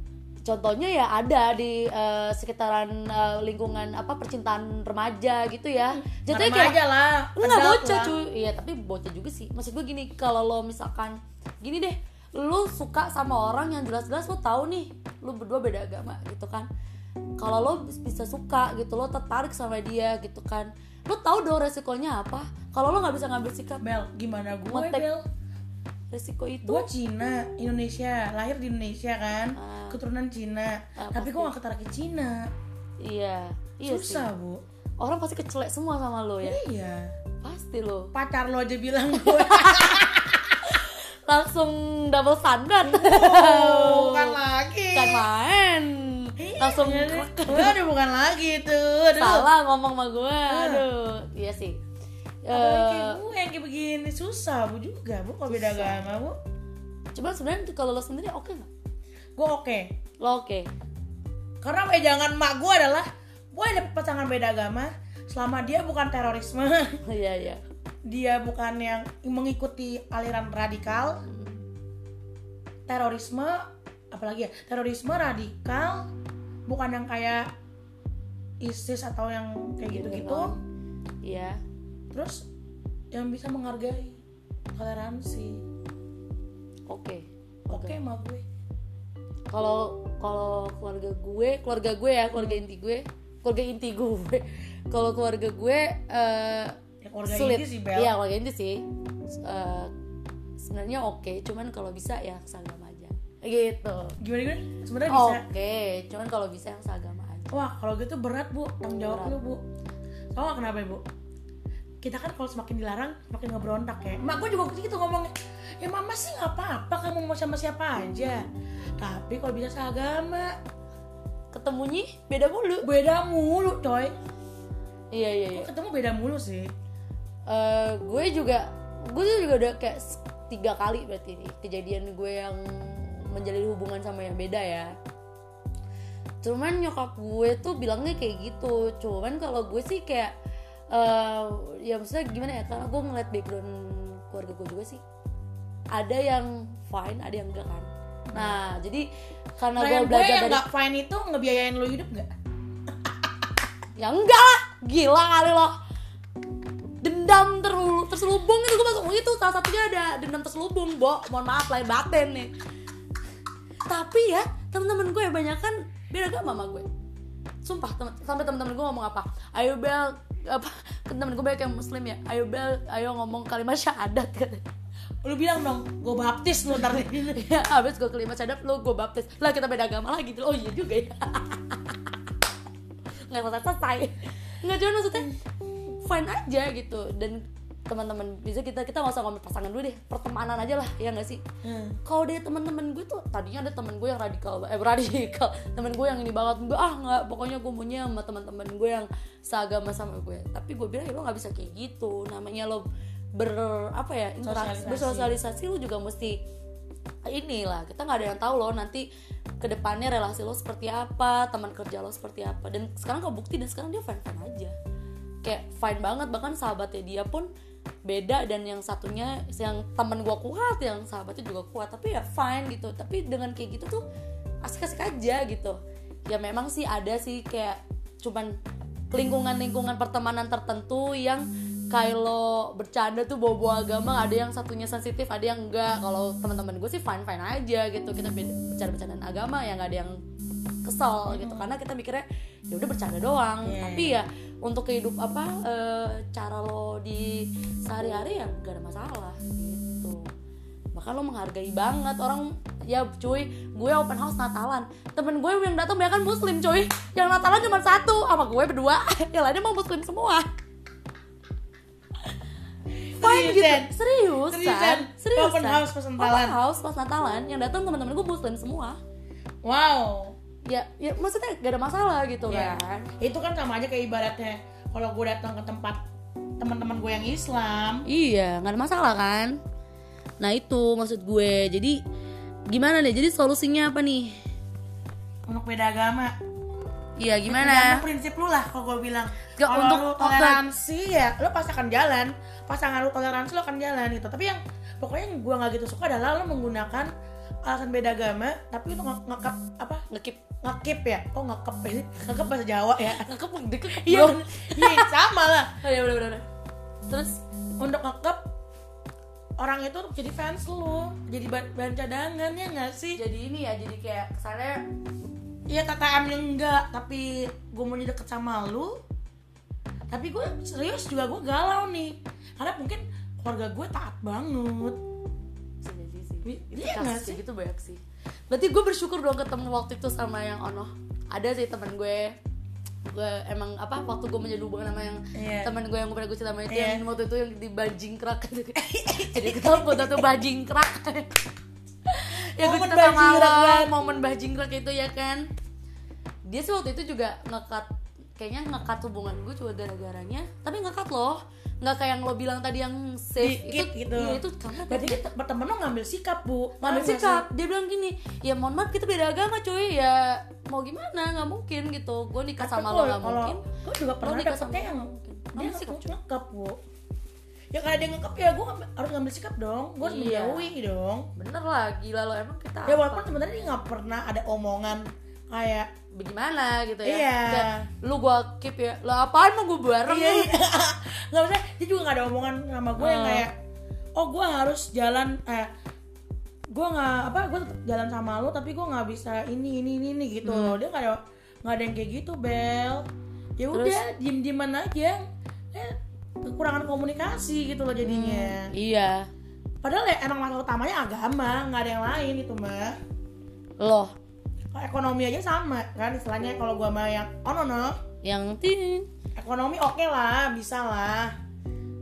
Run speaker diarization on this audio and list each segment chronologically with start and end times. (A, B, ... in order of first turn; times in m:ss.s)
0:00.4-0:06.8 A
0:06.1-0:08.1 B
0:07.4-0:16.7 A
0:17.4-0:23.8 A
0:23.8-0:25.2 B
0:24.7-0:25.0 A
0:26.1-0:26.8 A
0:26.6-0:32.5 B
0:29.5-0:30.0 A
0:31.0-0:31.5 A
0:33.0-0:34.3 A
0:33.8-0:34.6 B
0:35.0-0:36.6 A
0:36.4-0:37.1 B
0:37.4-0:38.1 A
0:38.1-0:40.7 B
0:39.1-0:40.1 A
0:40.6-0:44.4 A
0:42.8-0:45.2 B
0:44.9-0:47.8 A
0:46.4-0:49.5 B
0:49.1-0:51.8 A
0:50.5-0:50.8 B
0:52.4-0:53.2 A
0:52.5-0:56.4 B
0:55.5-0:56.0 A
0:57.1-0:58.7 A
0:59.4-0:59.9 B
1:00.2-1:00.7 A
1:01.6-1:07.0 B
1:07.0-1:07.6 A
1:08.0-1:11.2 B
1:11.2-1:11.6 A
1:12.9-1:16.1 B
1:16.7-1:17.5 B
1:18.6-1:20.5 B
1:19.9-1:20.5 A
1:21.2-1:21.6 A
1:22.1-1:22.5 B
1:23.1-1:24.2 B
1:24.7-1:25.6 B
1:26.9-1:28.0 A
1:27.7-1:28.4 B
1:29.5-1:39.9 A
1:37.0-1:38.1 B
1:40.6-1:44.2 A
1:44.2-1:45.4 B
1:45.1-1:47.6 A
1:47.5-1:49.6 B
1:49.1-1:49.4 A
1:50.3-1:51.0 B
1:52.0-1:58.4 B
1:59.0-2:00.6 B
2:01.5-2:02.9 A
2:02.8-2:04.1 B
2:05.1-2:05.7 A
2:05.5-2:06.7 B
2:07.5-2:15.0 A
2:16.4-2:20.3 A
2:20.9-2:25.0 A
2:25.9-2:29.1 A
2:28.3-2:28.6 B
2:29.6-2:30.6 A
2:29.8-2:32.3 B
2:32.9-2:33.3 B
2:34.0-2:35.7 A
2:37.0-2:42.5 A
2:43.8-2:46.9 A
2:47.6-2:54.6 A
2:55.2-2:57.4 B
2:57.3-3:02.1 A
3:03.3-3:11.4 A
3:11.6-3:12.0 B
3:12.0-3:26.4 A
3:24.4-3:25.4 B
3:27.3-3:29.1 A
3:29.6-3:34.7 A
3:35.4-3:37.5 A
3:38.0-3:44.0 A
3:44.6-3:48.6 A
3:49.1-4:00.2 A
4:00.8-4:10.3 A
4:01.3-4:01.7 B
4:03.6-4:04.2 B
4:10.9-4:20.5 A
4:23.1-4:23.9 B
4:23.2-4:29.0 A
4:24.5-4:26.6 B
4:29.6-4:30.4 B
4:30.6-4:33.1 A
4:32.5-4:36.0 B
4:36.6-4:38.0 B
4:38.0-4:39.6 A
4:40.4-4:42.0 A
4:42.7-4:44.4 A
4:45.5-4:46.3 B
4:47.2-4:48.0 A
4:47.4-4:57.1 B
4:49.6-4:50.6 A
4:57.6-5:00.0 B
5:00.1-5:00.4 A
5:00.6-5:03.3 B
5:03.2-5:05.1 A
5:03.9-5:05.7 B
5:05.8-5:06.4 A
5:07.1-5:07.4 A
5:07.8-5:08.4 B
5:09.6-5:13.2 B
5:13.2-5:14.8 A
5:15.7-5:19.0 B
5:20.1-5:25.0 B
5:25.8-5:32.4 A
5:26.4-5:27.4 B
5:33.0-5:41.4 A
5:35.3-5:35.7 B
5:36.7-5:37.0 B
5:38.8-5:40.2 B
5:42.1-5:45.5 A
5:42.6-5:43.9 B
5:46.4-5:55.2 A
5:53.4-5:57.5 B
5:56.8-6:03.6 A
6:02.6-6:06.8 B
6:04.2-6:06.2 A
6:07.7-6:11.3 B
6:10.0-6:10.7 A
6:11.4-6:13.3 A
6:12.8-6:15.9 B
6:16.1-6:20.5 A
6:17.0-6:17.9 B
6:20.0-6:23.5 B
6:23.0-6:23.5 A
6:24.2-6:25.7 B
6:26.7-6:33.1 B
6:30.4-6:30.8 A
6:33.6-6:38.7 B
6:33.7-6:34.0 A
6:38.0-6:39.3 A
6:39.8-6:43.0 B
6:43.8-6:44.1 A
6:44.7-6:48.0 B
6:48.2-6:49.1 A
6:49.4-6:51.3 B